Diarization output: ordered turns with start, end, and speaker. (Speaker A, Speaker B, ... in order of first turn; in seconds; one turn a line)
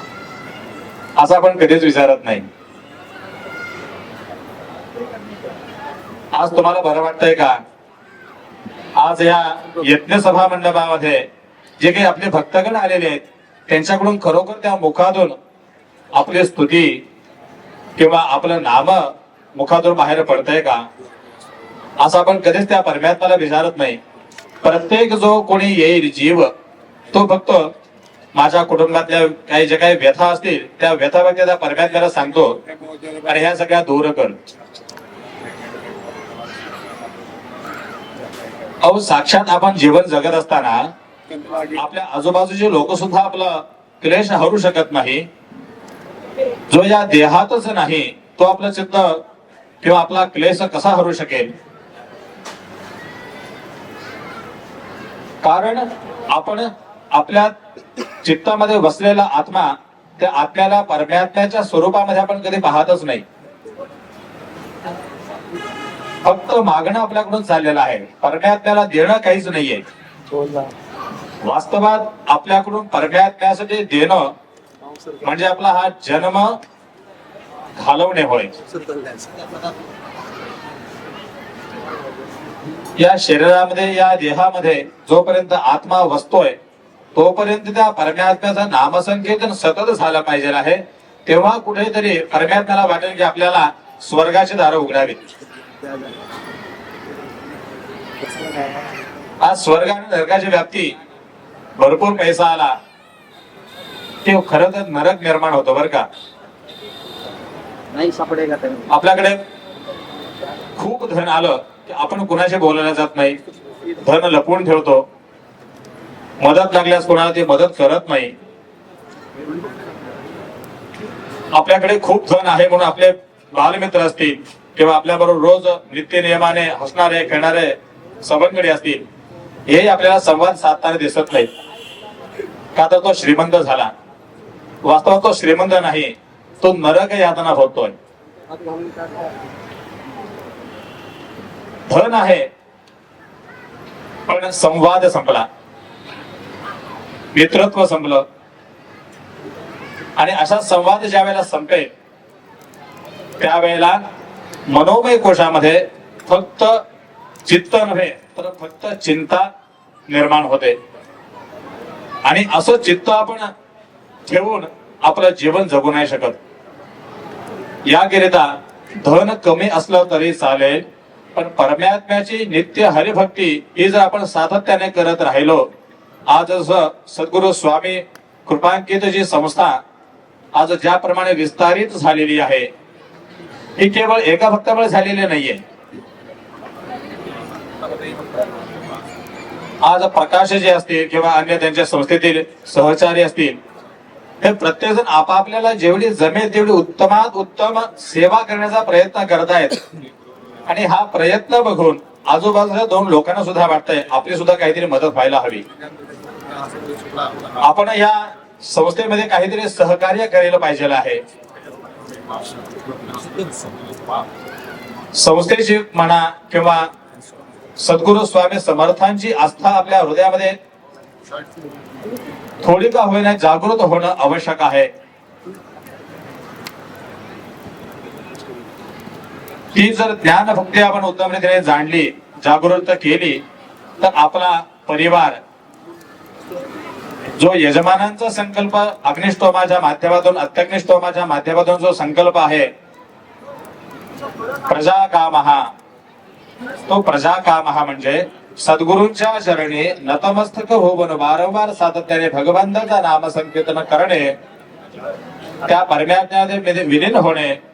Speaker A: 1.2-2.5
Speaker A: 6.3-7.6
Speaker A: 8.9-11.3
Speaker A: 11.8-15.3
Speaker A: 16.1-17.0
Speaker A: 18.0-20.9
Speaker A: 22.0-24.0
Speaker A: 24.6-26.5
Speaker A: 27.1-27.7
Speaker A: 28.3-32.6
Speaker A: 33.2-34.4
Speaker A: 38.8-40.9
Speaker A: 41.7-45.3
Speaker A: 46.7-49.2
Speaker A: 49.8-51.5
Speaker A: 55.4-57.5
Speaker A: 58.2-63.2
Speaker A: 66.2-69.8
Speaker B: 70.3-70.7
Speaker A: 71.4-74.3
Speaker B: 74.9-75.2
Speaker A: 75.2-76.6
Speaker A: 77.8-78.5
Speaker B: 78.7-79.6
Speaker A: 83.0-86.6
Speaker A: 87.1-95.2
Speaker B: 98.2-98.8
Speaker A: 99.4-101.0
Speaker A: 101.8-102.8
Speaker A: 104.2-106.1
Speaker B: 107.9-108.9
Speaker A: 108.9-109.4
Speaker A: 110.8-115.0
Speaker A: 116.4-118.3
Speaker A: 121.5-129.1
Speaker A: 129.7-131.5
Speaker A: 132.7-133.9
Speaker A: 134.8-137.9
Speaker B: 138.5-139.3
Speaker A: 141.9-142.5
Speaker A: 144.3-145.5
Speaker A: 147.3-148.3
Speaker A: 150.2-151.9
Speaker A: 153.4-154.0
Speaker A: 154.7-156.8
Speaker A: 157.4-159.5
Speaker A: 160.1-160.8
Speaker A: 162.2-163.5
Speaker A: 164.3-166.4
Speaker A: 167.8-175.7
Speaker A: 176.3-179.8
Speaker A: 180.5-182.7
Speaker A: 183.8-185.6
Speaker A: 189.8-193.6
Speaker A: 194.4-199.8
Speaker A: 200.7-205.7
Speaker B: 206.5-207.4
Speaker A: 207.6-211.2
Speaker B: 213.1-213.7
Speaker A: 215.1-216.9
Speaker A: 217.8-220.6
Speaker A: 222.6-224.9
Speaker A: 229.7-233.4
Speaker A: 234.0-235.4
Speaker A: 237.3-242.7
Speaker A: 244.7-245.7
Speaker A: 246.9-254.4
Speaker A: 255.6-257.6